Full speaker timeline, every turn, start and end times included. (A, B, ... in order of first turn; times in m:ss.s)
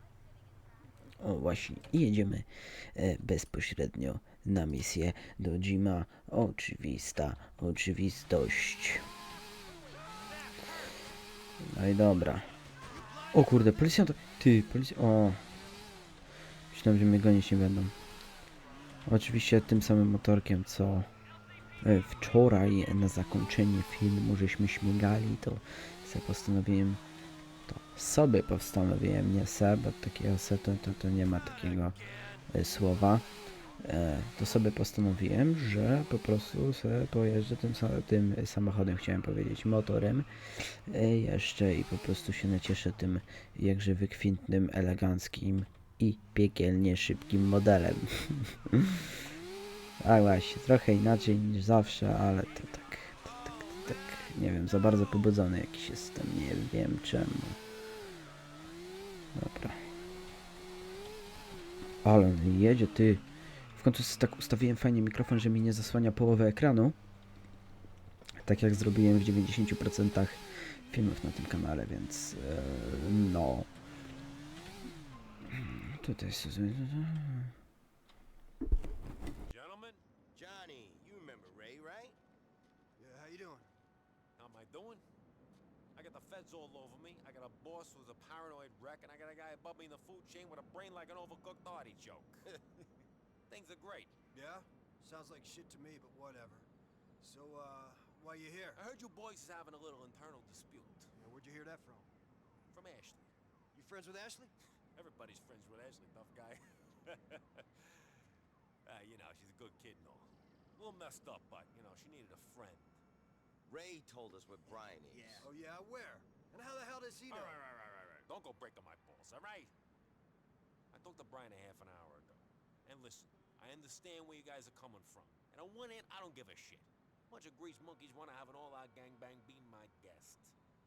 0:01.2-0:09.0 A
0:11.6-0:12.5 A
0:13.3-0:15.4 A
0:16.7-0:17.9 A
0:19.1-0:21.1 A
0:21.8-0:27.0 A
0:27.7-0:33.2 A
0:33.8-0:49.1 A
0:50.0-0:57.6 A
0:59.3-0:59.8 A
1:02.0-1:07.0 A
1:08.4-1:13.7 A
1:15.5-1:17.5 A
1:19.4-1:20.0 B
1:20.3-1:22.2 C
1:23.0-1:23.7 D
1:24.4-1:25.0 B
1:25.9-1:32.4 B
1:33.5-1:34.1 B
1:34.3-1:36.7 D
1:37.2-1:38.8 D
1:38.8-1:41.1 B
1:41.2-1:42.1 D
1:42.7-1:43.3 B
1:43.7-1:44.5 D
1:45.0-1:48.1 B
1:48.8-1:53.0 B
1:53.6-1:55.4 C
1:55.1-1:55.4 B
1:55.4-1:57.6 D
1:57.3-1:59.7 B
2:00.9-2:10.5 B